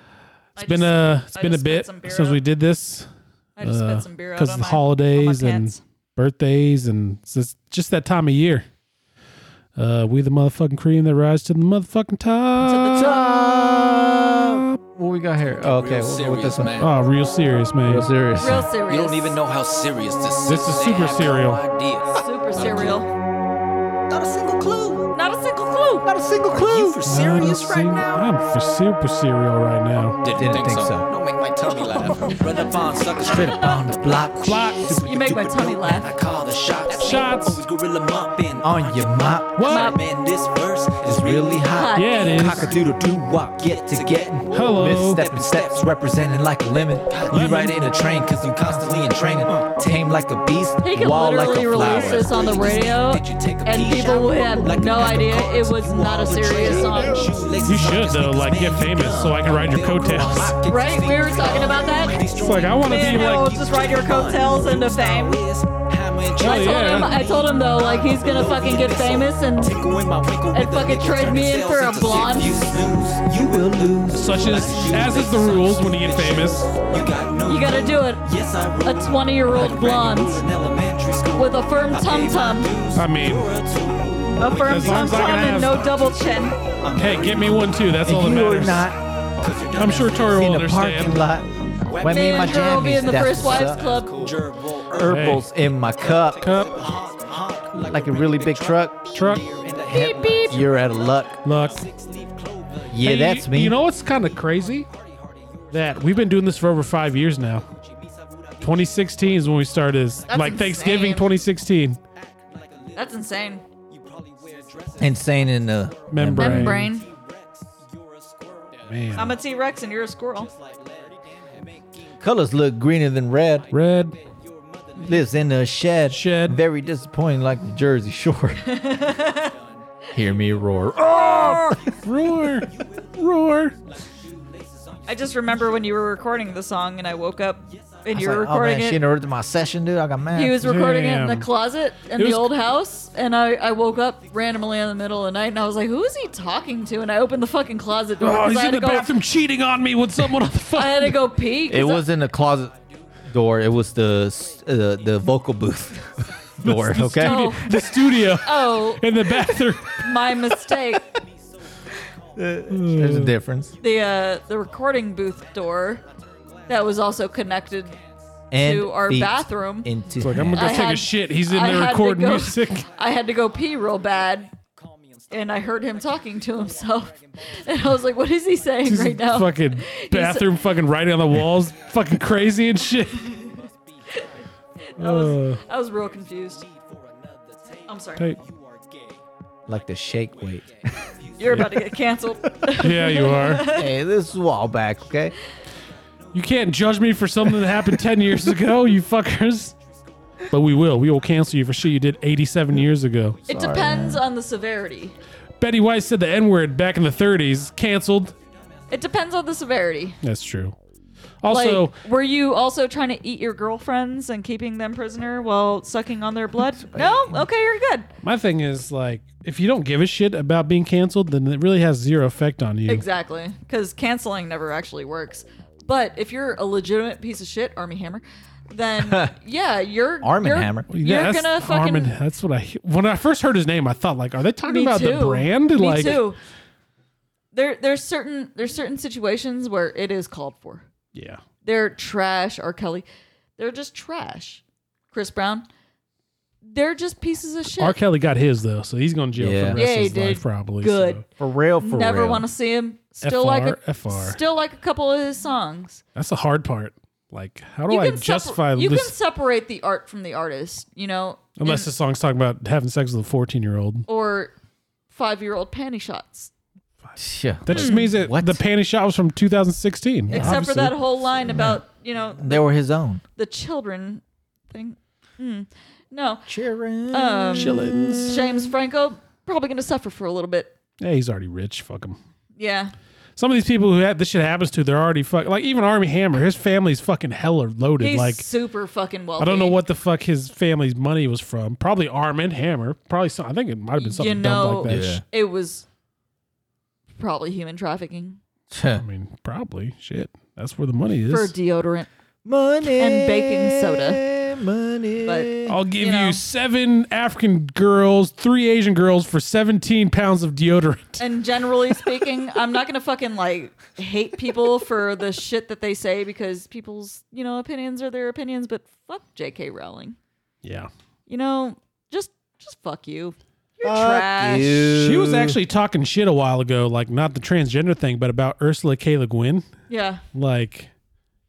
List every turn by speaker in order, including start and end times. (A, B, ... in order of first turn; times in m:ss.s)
0:00.6-0:02.4 A
0:00.6-0:03.1 B
0:03.6-0:05.8 A
0:03.6-0:08.6 B
0:09.8-0:13.1 B
0:12.6-0:13.3 A
0:12.9-0:16.8 C
0:14.5-0:14.8 B
0:15.5-0:16.9 D
0:16.8-0:18.1 B
0:17.9-0:18.7 C
0:18.3-0:19.4 A
0:18.8-0:23.0 D
0:20.5-0:21.6 B
0:22.1-0:23.1 A
0:24.1-0:25.1 D
0:25.1-0:26.1 A
0:26.0-0:27.0 C
0:26.1-0:28.3 D
0:27.0-0:30.2 B
0:30.2-1:28.0 D
0:30.3-0:31.1 C
0:33.2-0:34.8 C
0:34.4-0:35.1 B
0:35.0-0:36.1 A
0:37.0-0:37.6 B
0:38.6-0:39.6 C
0:39.5-0:39.9 B
0:39.6-0:40.0 A
0:41.0-0:52.5 C
0:41.7-0:42.7 A
0:41.9-0:42.8 B
0:44.5-0:45.2 B
0:50.8-0:57.3 A
0:57.6-1:00.6 B
1:00.7-1:02.3 A
1:02.4-1:03.5 B
1:02.8-1:05.4 A
1:06.4-1:07.2 B
1:06.4-1:09.8 A
1:10.5-1:12.7 A
1:14.1-1:16.7 B
1:17.4-1:18.3 A
1:18.8-1:20.4 A
1:21.4-1:22.8 A
1:22.9-1:23.5 B
1:24.4-1:26.6 A
1:24.6-1:25.9 B
1:27.0-1:28.9 B
1:28.0-1:29.0 C
1:29.4-1:30.5 D
1:29.7-1:31.2 B
1:30.3-1:33.8 C
1:31.8-1:43.0 D
1:32.0-1:34.4 A
1:34.9-1:36.4 C
1:35.0-1:35.5 B
1:36.4-1:36.8 B
1:37.8-1:39.1 C
1:39.1-1:39.5 B
1:39.9-1:40.6 A
1:39.9-1:41.4 C
1:41.4-1:41.9 B
1:42.9-1:43.8 C
1:43.0-1:44.9 B
1:44.0-1:50.5 D
1:45.7-1:47.7 B
1:48.6-1:52.0 B
1:50.3-1:51.2 A
1:52.1-1:59.5 D
1:52.9-1:53.6 A
1:55.0-1:56.8 C
1:56.1-1:56.9 B
1:56.3-1:57.1 A
1:58.9-1:59.4 B
1:59.1-2:00.5 A
2:00.4-2:02.3 D
2:02.2-2:03.7 C
2:03.6-2:05.3 D
2:03.7-2:04.2 B
2:05.0-2:08.6 C
2:06.1-2:06.6 B
2:08.6-2:09.5 A
2:08.7-2:13.2 D
2:10.1-2:11.9 C
2:11.3-2:11.8 A
2:11.9-2:13.8 B
2:13.8-2:16.5 D
2:15.1-2:19.0 A
2:17.7-2:18.0 D
2:18.1-2:20.6 C
2:20.3-2:29.1 A
2:20.6-2:21.5 B
2:22.1-2:22.5 B
2:28.2-2:31.2 B
2:30.8-2:32.0 A
2:31.7-2:32.7 C
2:33.3-2:37.5 C
2:36.2-2:36.6 D
2:36.6-2:40.0 B
2:37.2-2:39.0 A
2:39.9-2:41.0 A
2:41.0-2:42.7 D
2:42.4-2:43.7 C
2:42.7-2:43.3 B
2:43.7-2:48.1 D
2:43.8-2:46.0 A
2:46.7-2:48.0 A
2:48.5-2:50.7 C
2:48.6-2:50.0 A
2:50.2-2:52.9 B
2:50.5-2:54.5 A
2:54.0-2:58.0 D
2:55.3-3:00.5 A
2:58.8-3:03.4 B
3:03.1-3:03.6 A
3:03.1-3:04.9 D
3:05.0-3:06.6 A
3:05.0-3:05.6 B
3:06.0-3:09.2 D
3:07.9-3:08.2 A
3:09.7-3:11.1 C
3:09.8-3:11.9 D
3:11.4-3:13.9 A
3:12.8-3:13.7 B
3:13.6-3:15.3 C
3:16.3-3:19.7 B
3:20.5-3:23.4 B
3:23.5-3:25.2 A
3:23.5-3:24.2 C
3:25.6-3:28.3 B
3:28.9-3:30.2 A
3:30.2-3:30.8 B
3:31.4-3:31.9 B
3:31.5-3:38.1 A
3:36.8-3:37.4 C
3:38.2-3:43.0 B
3:42.9-3:52.1 A
3:49.0-3:49.3 C
3:50.2-3:50.9 C
3:50.9-3:56.2 B
3:54.6-3:56.4 A
3:57.5-4:00.8 A
4:01.1-4:01.4 B
4:01.6-4:03.0 A
4:03.6-4:05.6 A
4:06.6-4:08.0 A
4:07.6-4:11.2 B
4:09.4-4:09.8 C
4:09.8-4:11.3 A
4:11.4-4:12.5 C
4:11.8-4:16.0 A
4:13.2-4:14.4 B
4:16.1-4:19.1 B
4:17.9-4:21.9 A
4:21.6-4:24.0 B
4:24.1-4:24.5 A
4:25.1-4:26.5 A
4:27.0-4:31.0 B
4:27.2-4:28.6 C
4:27.7-4:28.0 A
4:30.3-4:30.6 C
4:30.3-4:32.6 A
4:31.5-4:31.8 C
4:32.4-4:33.2 C
4:33.4-4:36.5 A
4:36.5-4:38.7 C
4:37.1-4:40.7 A
4:37.6-4:38.4 B
4:41.0-4:42.2 B
4:42.6-4:42.9 A
4:43.4-4:48.4 B
4:48.0-4:49.8 A
4:49.4-4:55.2 B
4:54.0-4:55.8 A
4:54.8-4:55.2 C
4:57.2-4:58.4 A
4:58.7-4:59.0 C
4:58.9-5:01.5 B
5:01.2-5:02.1 A
5:02.4-5:05.8 C
5:03.0-5:04.2 A
5:05.2-5:06.4 A
5:05.6-5:11.2 B
5:11.2-5:20.2 A
5:20.6-5:20.9 B
5:21.3-5:24.9 A
5:23.8-5:25.6 C
5:24.9-5:29.7 B
5:29.9-5:30.2 A
5:30.3-5:30.9 B